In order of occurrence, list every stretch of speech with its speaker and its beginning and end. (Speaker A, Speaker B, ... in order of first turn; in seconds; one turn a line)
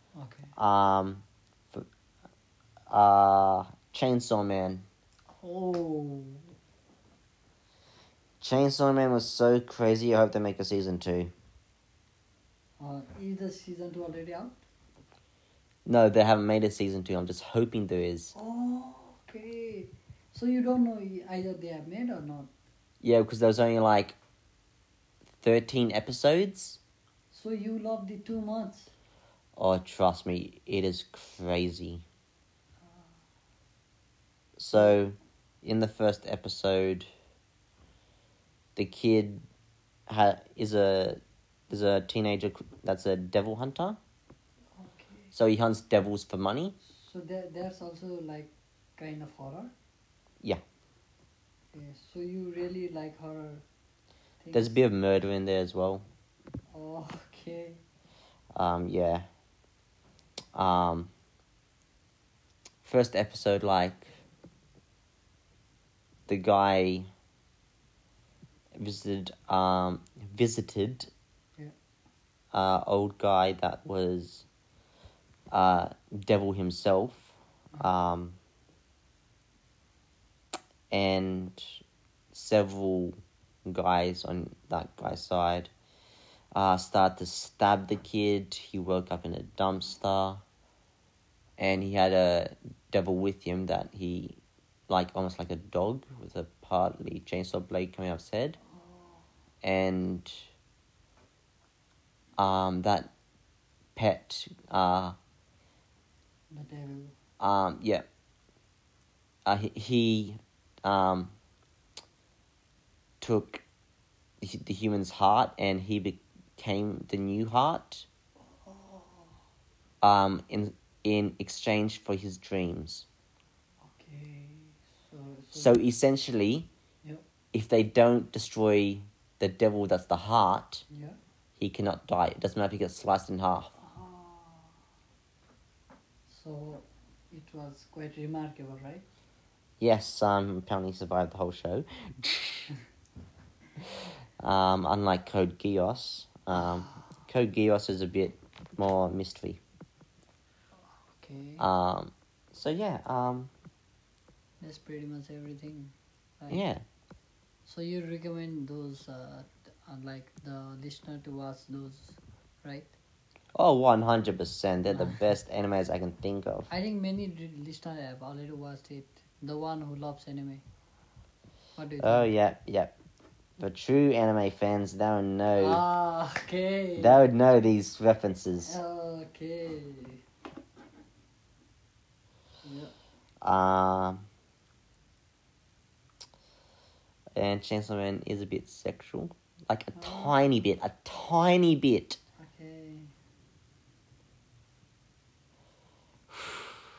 Speaker A: 0.1-0.5
Speaker B: 0.6-1.9
Speaker B: 2.9-4.8
Speaker A: 5.3-6.5
Speaker B: 8.4-11.3
Speaker A: 12.8-14.6
Speaker B: 15.8-18.3
Speaker A: 18.3-22.5
Speaker B: 23.0-24.2
Speaker B: 25.4-26.8
Speaker A: 27.3-28.9
Speaker B: 29.6-32.0
Speaker A: 32.8-33.1
Speaker B: 34.6-37.1
Speaker B: 38.8-39.4
Speaker B: 40.1-44.0
Speaker A: 44.7-45.3
Speaker B: 45.3-46.8
Speaker A: 46.8-49.7
Speaker A: 51.7-53.6
Speaker A: 54.4-54.8
Speaker B: 54.5-56.0
Speaker A: 56.7-57.8
Speaker B: 58.5-59.2
Speaker B: 60.5-61.1
Speaker B: 62.8-64.1
Speaker B: 66.3-67.1
Speaker B: 68.7-71.1
Speaker B: 72.5-74.4
Speaker B: 75.5-78.4
Speaker B: 80.9-81.6
Speaker B: 82.3-85.7
Speaker B: 86.5-90.4
Speaker B: 91.6-98.6
Speaker A: 98.6-99.2
Speaker B: 99.6-100.4
Speaker B: 102.4-103.1
Speaker B: 104.0-105.2
Speaker A: 106.5-107.1
Speaker B: 107.4-108.0
Speaker B: 109.4-111.3
Speaker B: 113.2-113.6
Speaker B: 114.4-118.0
Speaker A: 118.4-119.4
Speaker B: 120.0-123.1
Speaker A: 123.8-125.8
Speaker B: 125.5-126.7
Speaker B: 127.5-130.8
Speaker A: 130.9-131.2
Speaker B: 131.6-133.7
Speaker A: 133.8-134.8
Speaker A: 136.3-139.1
Speaker B: 139.8-142.7
Speaker B: 144.4-149.6
Speaker A: 146.5-146.9
Speaker A: 151.0-151.7
Speaker B: 151.6-153.5
Speaker A: 154.6-156.7
Speaker B: 156.5-156.8
Speaker A: 157.6-162.9
Speaker B: 163.5-166.7
Speaker A: 164.9-165.2
Speaker A: 166.7-170.6
Speaker A: 171.8-172.3
Speaker B: 172.0-172.9
Speaker B: 173.6-175.8
Speaker A: 175.6-177.3
Speaker B: 177.0-178.8
Speaker A: 178.6-180.2
Speaker A: 182.6-182.9
Speaker B: 183.4-184.2
Speaker B: 187.3-192.2
Speaker A: 189.9-190.4
Speaker A: 192.4-193.1
Speaker B: 196.3-196.7